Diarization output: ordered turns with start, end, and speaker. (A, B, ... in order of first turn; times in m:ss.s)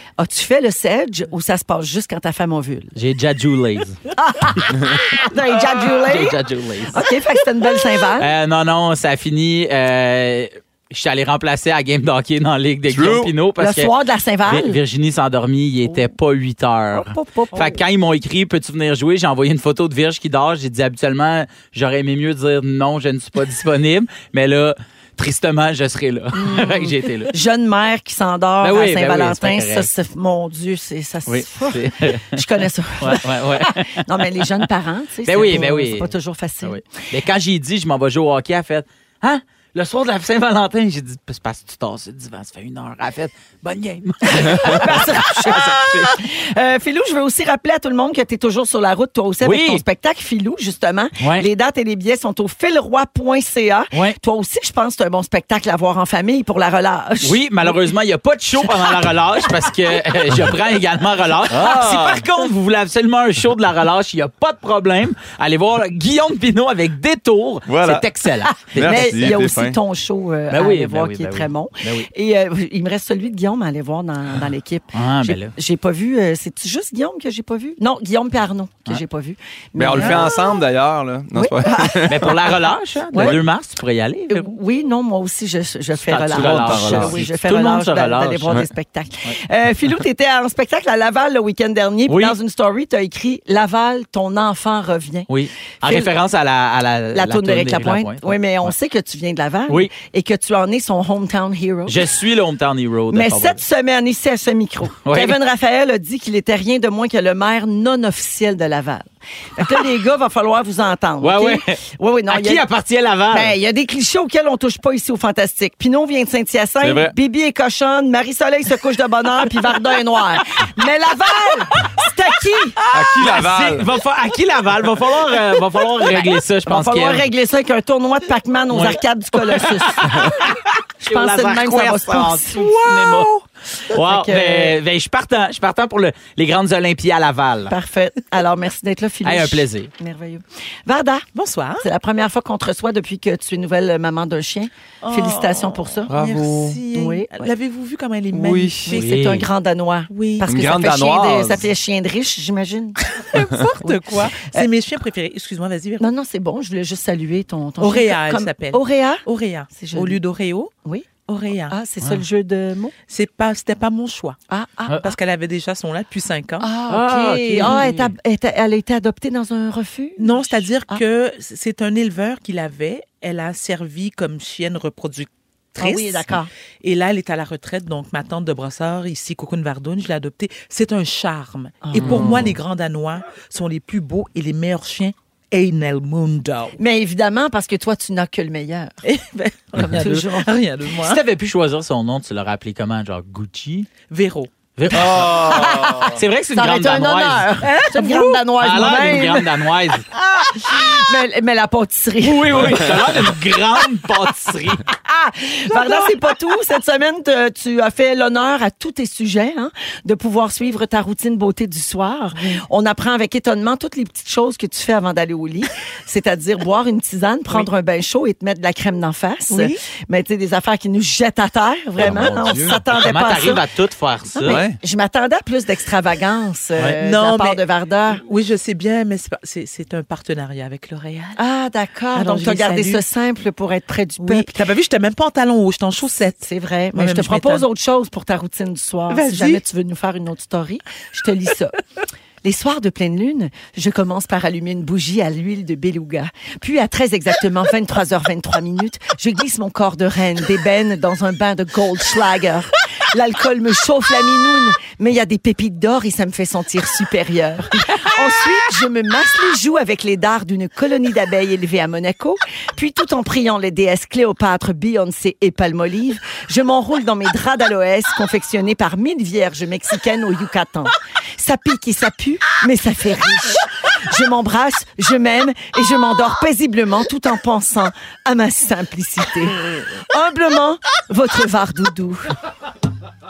0:00.2-0:02.9 A
0:03.0-0:04.0 B
0:04.1-0:08.3 A
0:06.0-0:07.0 B
0:08.2-0:13.9 B
0:12.9-0:13.3 C
0:13.6-0:14.8 A
0:14.5-0:27.3 B
0:16.9-0:17.8 A
0:26.4-0:36.8 A
0:28.6-0:29.9 B
0:31.3-0:32.4 B
0:33.0-0:34.6 B
0:35.3-0:36.1 B
0:36.6-0:46.1 B
0:44.2-0:57.7 A
0:49.4-0:49.8 B
0:51.2-0:51.5 B
0:53.9-0:54.2 B
0:57.2-1:09.2 B
1:01.6-1:02.1 C
1:07.7-1:09.8 C
1:08.8-1:20.4 A
1:10.5-1:12.1 B
1:14.9-1:15.5 B
1:19.8-1:22.4 C
1:21.3-1:22.4 A
1:22.1-1:24.5 B
1:23.1-1:23.4 D
1:24.3-1:35.3 A
1:26.1-1:28.7 B
1:26.3-1:27.3 C
1:32.1-1:32.4 B
1:35.3-1:38.8 B
1:35.8-1:36.1 A
1:37.1-1:42.0 A
1:41.9-1:43.6 B
1:43.1-1:52.6 A
1:45.0-1:45.4 B
1:51.2-1:53.5 B
1:53.3-2:02.8 A
1:56.8-1:57.2 C
2:02.9-2:03.9 C
2:03.2-2:07.3 B
2:06.1-2:12.6 A
2:08.7-2:13.3 B
2:12.5-2:13.4 D
2:13.9-2:17.7 B
2:14.0-2:14.8 A
2:17.7-2:21.3 A
2:19.2-2:19.9 B
2:21.4-2:21.9 D
2:21.8-2:26.1 A
2:25.0-2:29.1 D
2:26.1-2:26.8 C
2:26.9-2:27.5 A
2:28.3-2:29.0 C
2:28.9-2:33.0 A
2:28.9-2:29.5 B
2:30.1-2:30.5 D
2:30.5-2:31.7 C
2:33.0-2:36.1 D
2:33.8-2:34.7 A
2:36.0-2:40.2 A
2:37.8-2:40.7 D
2:40.8-2:43.0 A
2:41.3-2:41.8 D
2:43.1-2:44.4 D
2:44.5-2:45.2 A
2:45.0-2:48.0 D
2:46.6-2:51.0 A
2:46.9-2:48.1 B
2:50.2-3:06.8 D
2:55.8-2:56.5 A
3:01.8-3:02.5 A
3:06.8-3:09.0 A
3:09.0-3:11.2 D
3:09.8-3:10.5 A
3:11.0-3:13.9 B
3:14.1-3:14.5 D
3:14.8-3:17.5 B
3:14.9-3:16.2 C
3:16.5-3:19.5 A
3:17.6-3:19.3 D
3:18.6-3:20.1 B
3:20.1-3:23.0 A
3:22.2-3:24.8 B
3:22.6-3:22.9 C
3:24.9-3:43.6 A
3:25.7-3:26.2 D
3:32.4-3:32.6 D
3:39.5-3:39.8 D
3:42.0-3:42.8 C
3:43.0-3:44.6 B
3:44.4-3:48.2 A
3:44.4-3:44.8 C
3:46.8-3:47.6 D
3:48.2-3:51.4 D
3:51.4-3:54.6 A
3:52.1-3:53.0 D
3:54.2-3:57.6 D
3:56.4-4:01.8 A
3:59.1-3:59.6 D
4:02.4-4:42.4 A